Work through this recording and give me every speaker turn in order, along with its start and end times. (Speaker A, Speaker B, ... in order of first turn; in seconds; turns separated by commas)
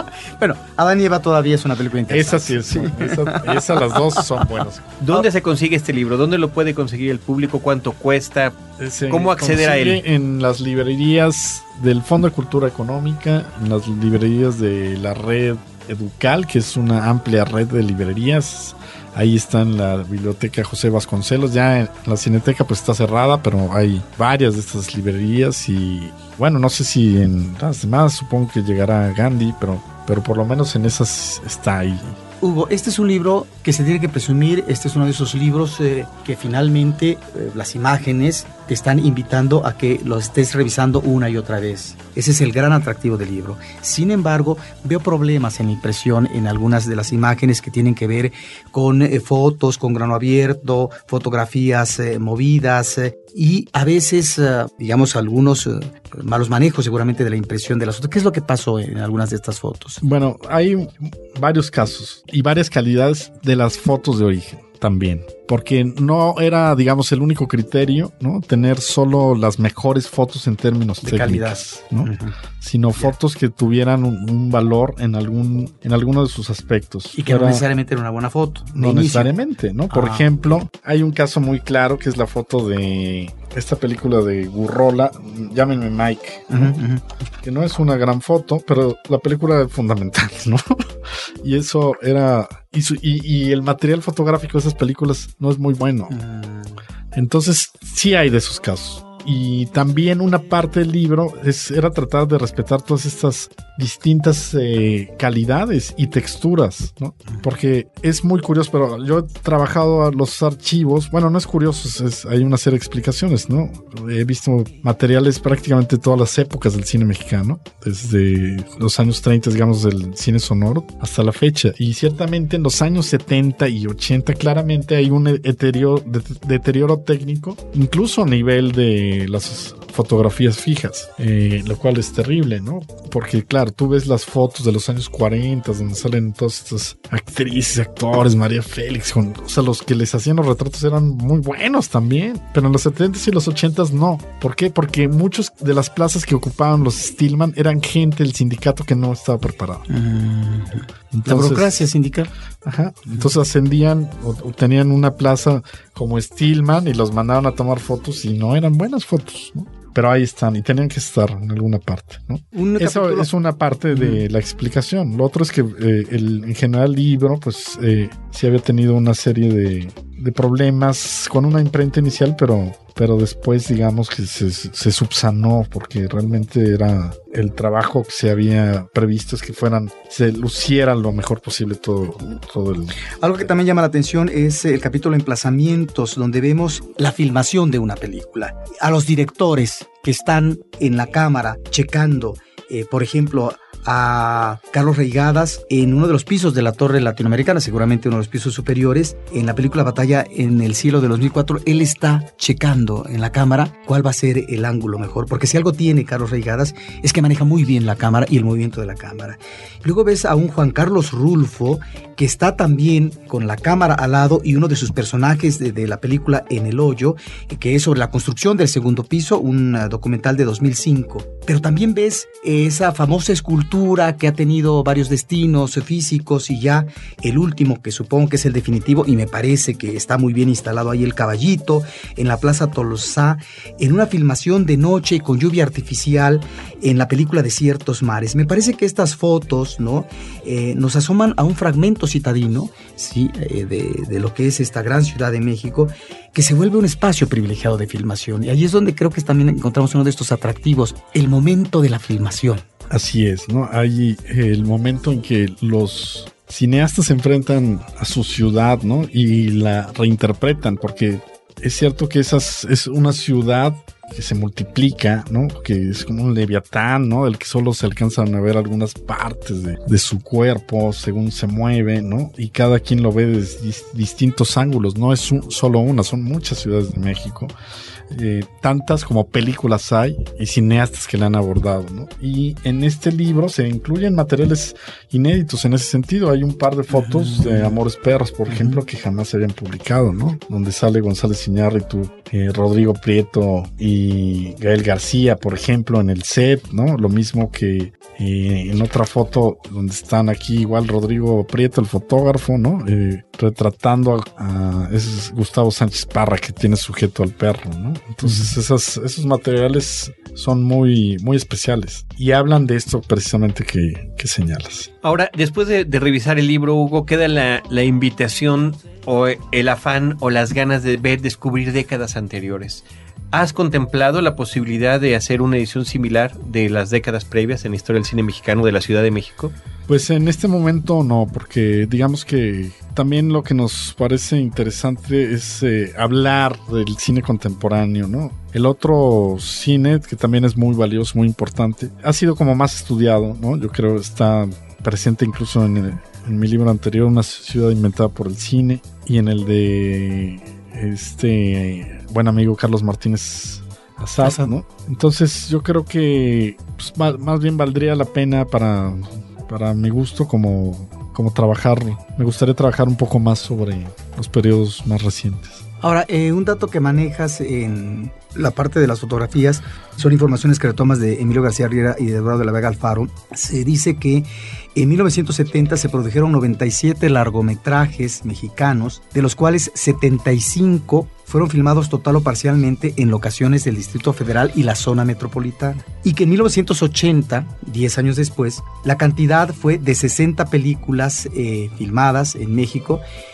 Speaker A: 0.4-4.5, Speaker B: 2.1-5.0, Speaker C: 5.0-8.6, Speaker B: 8.8-32.2, Speaker C: 9.1-10.0, Speaker A: 32.4-60.0, Speaker B: 60.0-77.6, Speaker A: 71.0-72.3, Speaker A: 77.1-79.3, Speaker B: 78.7-86.7, Speaker A: 79.9-80.3, Speaker A: 86.5-87.0, Speaker B: 87.4-96.1, Speaker A: 96.1-96.8, Speaker B: 97.1-149.8, Speaker A: 149.9-152.3, Speaker B: 151.1-151.9, Speaker B: 152.6-183.5, Speaker A: 162.5-163.3, Speaker A: 163.9-164.2, Speaker A: 183.2-252.7, Speaker B: 252.9-277.5, Speaker B: 278.1-314.9, Speaker A: 286.9-287.8, Speaker A: 288.5-288.8, Speaker C: 315.0-329.5, Speaker B: 329.9-365.6, Speaker A: 354.2-354.5, Speaker A: 365.8-393.0